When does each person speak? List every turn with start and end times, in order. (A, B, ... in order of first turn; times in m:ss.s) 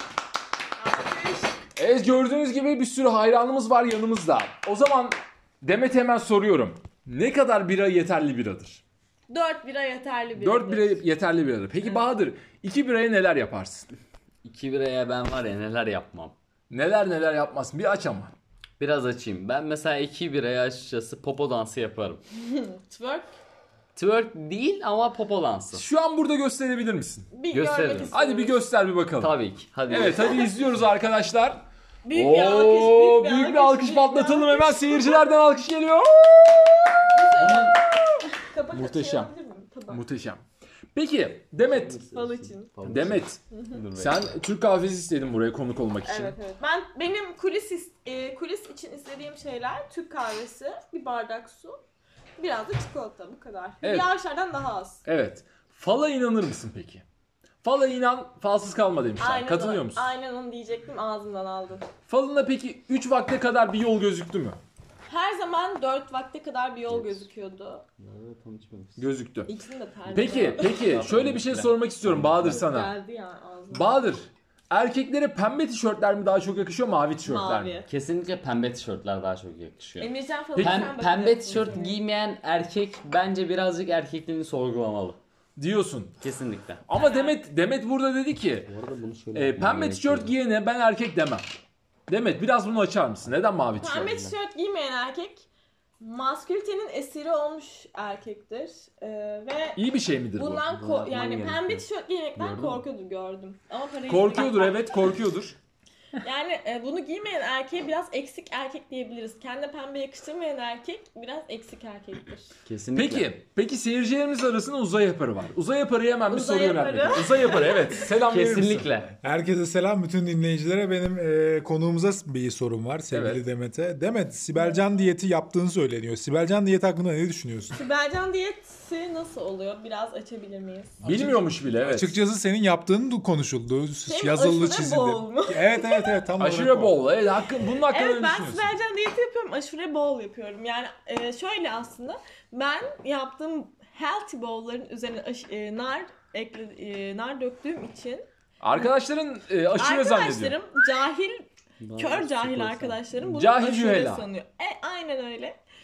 0:00.8-0:01.6 A
0:01.8-0:08.8 B
0:09.3-0:11.0 A
0:10.4-0:13.9 B
0:14.4-0:16.4 C
0:16.7-0:18.3 B
0:18.8-0:22.2 C
0:22.3-0:23.3 A
0:24.0-0:25.8 C
0:25.7-0:27.4 B
0:27.3-0:28.6 A
0:27.5-0:28.1 C
0:28.0-0:29.3 B
0:29.2-0:30.5 C
0:29.9-0:36.9 B
0:29.9-0:30.4 A
0:32.0-0:35.2 A
0:37.1-0:40.0 A
0:37.4-0:37.8 C
0:38.7-0:39.3 B
0:39.9-0:42.0 B
0:41.6-0:44.4 C
0:42.1-0:42.7 A
0:42.9-0:43.4 B
0:43.5-0:43.8 A
0:44.0-0:46.4 B
0:46.0-0:51.8 A
0:52.4-0:55.0 A
0:53.8-0:54.1 B
0:55.0-0:57.0 B
0:57.6-1:00.1 B
0:59.2-1:01.9 A
1:02.1-1:04.6 B
1:05.1-1:07.8 A
1:06.9-1:07.3 C
1:08.0-1:09.1 C
1:09.0-1:09.6 B
1:09.5-1:10.8 A
1:10.1-1:12.9 B
1:10.3-1:12.7 C
1:12.5-1:14.1 A
1:13.7-1:17.7 B
1:17.2-1:17.9 A
1:17.9-1:25.2 C
1:20.0-1:22.0 A
1:20.6-1:20.9 B
1:25.6-1:26.2 B
1:26.2-1:26.8 C
1:26.9-1:28.7 B
1:26.9-1:27.4 A
1:28.7-1:30.3 C
1:29.3-1:31.5 B
1:32.1-1:34.3 B
1:33.2-1:34.1 C
1:33.8-1:35.5 A
1:36.0-1:39.8 A
1:39.8-1:40.6 B
1:40.4-1:44.9 A
1:40.7-1:41.8 C
1:42.4-1:42.8 C
1:44.1-1:45.6 B
1:46.2-1:52.5 A
1:52.7-1:53.3 C
1:53.0-1:58.9 B
1:56.3-1:58.0 A
1:58.1-1:59.1 C
1:59.2-2:07.8 D
2:03.1-2:03.4 B
2:04.6-2:04.8 A
2:07.7-2:11.0 A
2:11.0-2:12.2 B
2:11.0-2:17.0 D
2:14.0-2:16.2 A
2:16.4-2:18.7 B
2:17.9-2:28.3 A
2:28.6-2:30.6 B
2:29.8-2:35.6 A
2:31.8-2:33.0 C
2:33.2-2:34.3 B